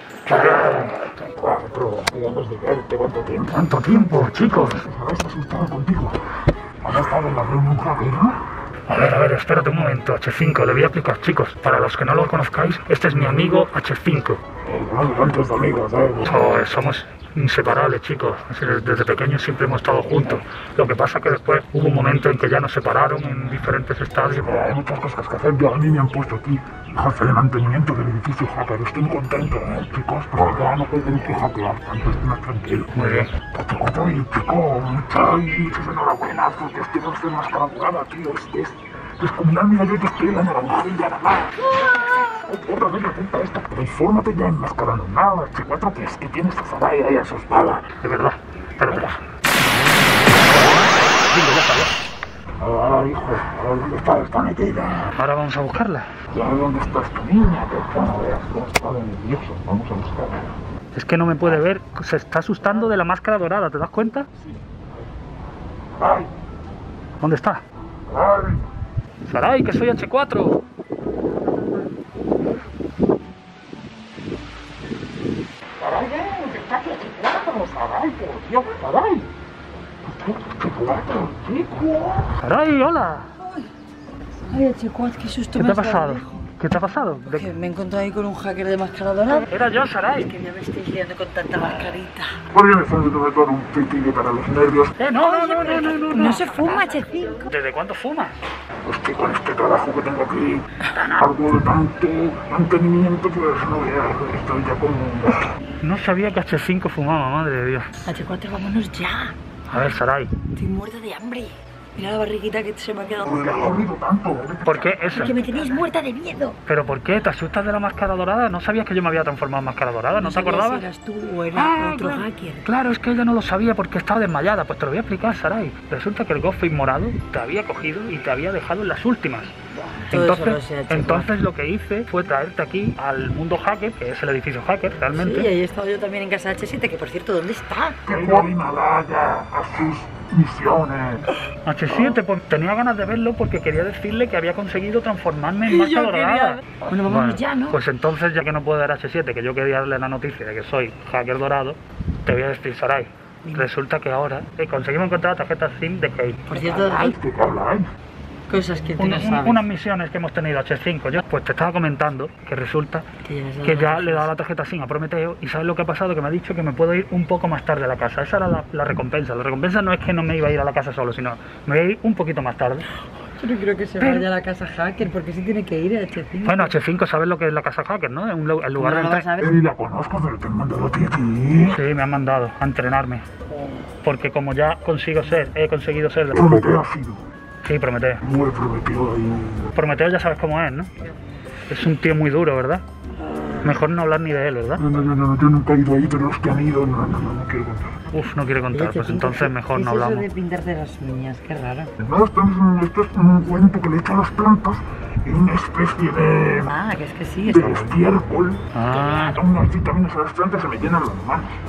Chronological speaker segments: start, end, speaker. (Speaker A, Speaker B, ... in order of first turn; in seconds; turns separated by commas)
Speaker A: 0.2-1.1, Speaker B: 1.3-3.6, Speaker A: 3.5-4.9, Speaker B: 4.6-8.5, Speaker A: 8.9-14.4, Speaker B: 14.6-16.6, Speaker A: 16.2-24.7, Speaker B: 24.4-47.9, Speaker A: 32.9-33.3, Speaker A: 48.0-49.2, Speaker B: 48.9-49.1, Speaker A: 50.4-52.0, Speaker B: 52.6-55.1, Speaker A: 55.1-56.1, Speaker B: 56.3-60.6, Speaker A: 60.9-64.3, Speaker B: 66.0-66.3, Speaker A: 67.2-67.6, Speaker B: 68.1-68.7, Speaker A: 69.2-70.6, Speaker B: 75.8-79.3, Speaker B: 80.0-82.3, Speaker A: 82.4-83.3, Speaker C: 84.5-86.4, Speaker A: 85.5-87.5, Speaker C: 87.2-92.4, Speaker A: 89.5-90.3, Speaker B: 92.5-94.9, Speaker A: 95.0-96.8, Speaker C: 95.2-97.5, Speaker A: 97.5-98.4, Speaker B: 98.8-105.5, Speaker A: 105.8-107.9, Speaker C: 108.0-109.3, Speaker A: 109.7-110.3, Speaker C: 110.5-113.8, Speaker B: 113.2-115.0, Speaker A: 114.6-115.3, Speaker C: 115.0-116.6, Speaker A: 116.7-120.9, Speaker C: 120.2-122.6, Speaker A: 121.5-129.5, Speaker C: 130.1-131.3, Speaker A: 130.1-135.5, Speaker C: 135.1-138.4, Speaker B: 138.0-141.3, Speaker A: 141.6-156.4, Speaker C: 145.6-147.8, Speaker C: 153.4-153.7, Speaker C: 156.5-157.2, Speaker B: 156.5-157.9, Speaker C: 158.5-159.7, Speaker A: 159.0-163.1, Speaker C: 163.2-164.3, Speaker A: 163.6-172.9, Speaker C: 173.2-176.7, Speaker A: 174.0-174.3, Speaker A: 176.4-179.3, Speaker C: 178.8-179.5, Speaker B: 179.4-181.8, Speaker A: 181.7-183.2, Speaker A: 184.0-186.5, Speaker B: 186.3-187.2, Speaker A: 187.6-188.2, Speaker B: 188.2-189.7, Speaker A: 189.8-190.9, Speaker A: 191.7-192.8, Speaker A: 193.6-194.9, Speaker B: 194.8-198.0, Speaker A: 198.1-200.3, Speaker C: 198.7-201.9, Speaker B: 202.0-206.8, Speaker C: 206.7-208.0, Speaker B: 207.4-208.6, Speaker A: 208.7-209.4, Speaker C: 208.9-209.3, Speaker B: 209.2-211.6